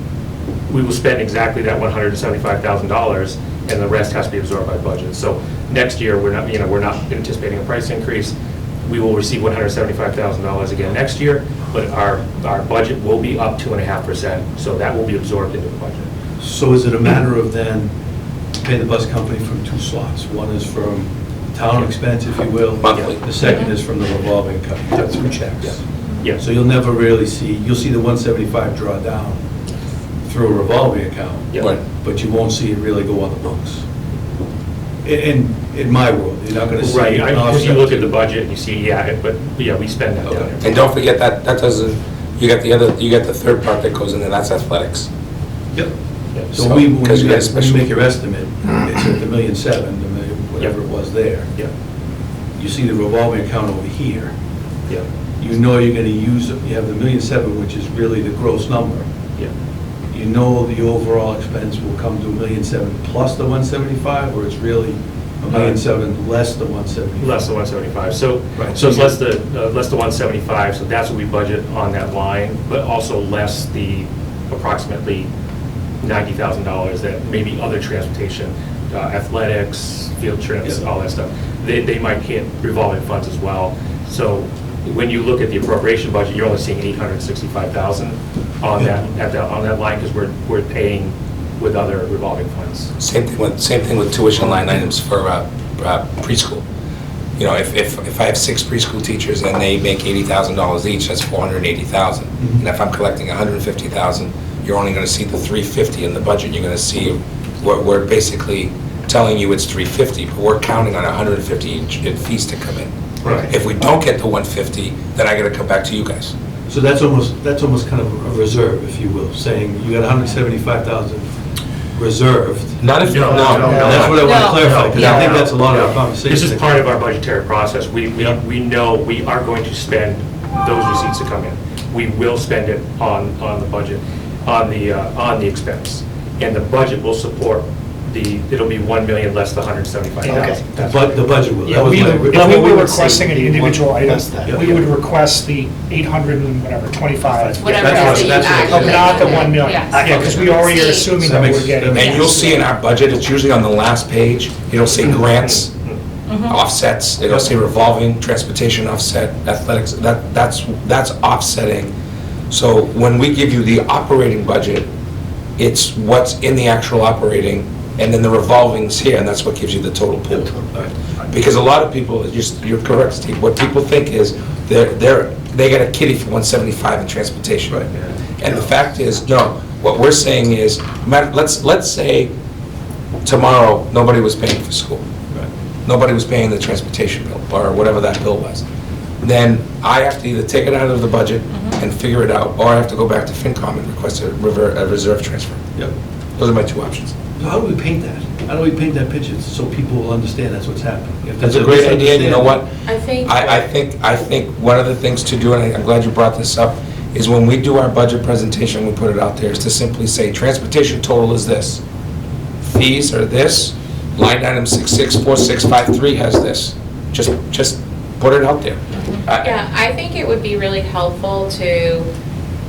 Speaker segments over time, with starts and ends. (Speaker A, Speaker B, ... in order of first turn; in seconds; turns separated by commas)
Speaker A: 0.7-16.1, Speaker B: 16.4-17.9, Speaker B: 18.6-25.8, Speaker C: 22.8-23.2, Speaker A: 22.9-23.2, Speaker D: 23.4-23.7, Speaker A: 24.9-26.4, Speaker B: 26.4-29.4, Speaker B: 30.2-33.8, Speaker A: 31.5-31.8, Speaker B: 35.0-38.1, Speaker A: 36.8-40.7, Speaker B: 40.2-40.5, Speaker C: 40.6-45.1, Speaker B: 46.5-51.5, Speaker C: 46.5-47.9, Speaker B: 52.6-54.3, Speaker B: 55.4-59.0, Speaker B: 60.1-67.5, Speaker A: 65.5-65.8, Speaker A: 67.2-75.3, Speaker B: 68.5-69.1, Speaker A: 76.0-92.9, Speaker C: 93.0-96.6, Speaker C: 97.4-112.9, Speaker B: 113.2-113.5, Speaker A: 113.2-113.5, Speaker C: 113.4-116.3, Speaker B: 116.7-121.3, Speaker B: 121.9-126.8, Speaker C: 122.8-124.2, Speaker A: 123.0-141.2, Speaker E: 123.7-124.1, Speaker D: 124.1-125.2, Speaker E: 124.9-125.4, Speaker E: 140.2-140.7, Speaker B: 140.7-144.8, Speaker E: 141.7-152.6, Speaker B: 147.4-152.5, Speaker D: 147.6-151.2, Speaker C: 151.9-155.7, Speaker D: 152.0-152.3, Speaker A: 155.4-156.0, Speaker D: 156.3-156.6, Speaker C: 156.5-161.9, Speaker C: 162.5-164.9, Speaker C: 165.6-177.8, Speaker B: 170.3-170.9, Speaker B: 177.7-178.5, Speaker C: 178.4-182.3, Speaker C: 183.2-185.0, Speaker C: 185.8-188.6, Speaker C: 189.2-195.6, Speaker C: 196.4-197.1, Speaker B: 197.4-202.6, Speaker C: 201.4-202.7, Speaker D: 202.9-203.3, Speaker C: 203.2-211.8, Speaker C: 212.6-219.5, Speaker D: 219.3-222.1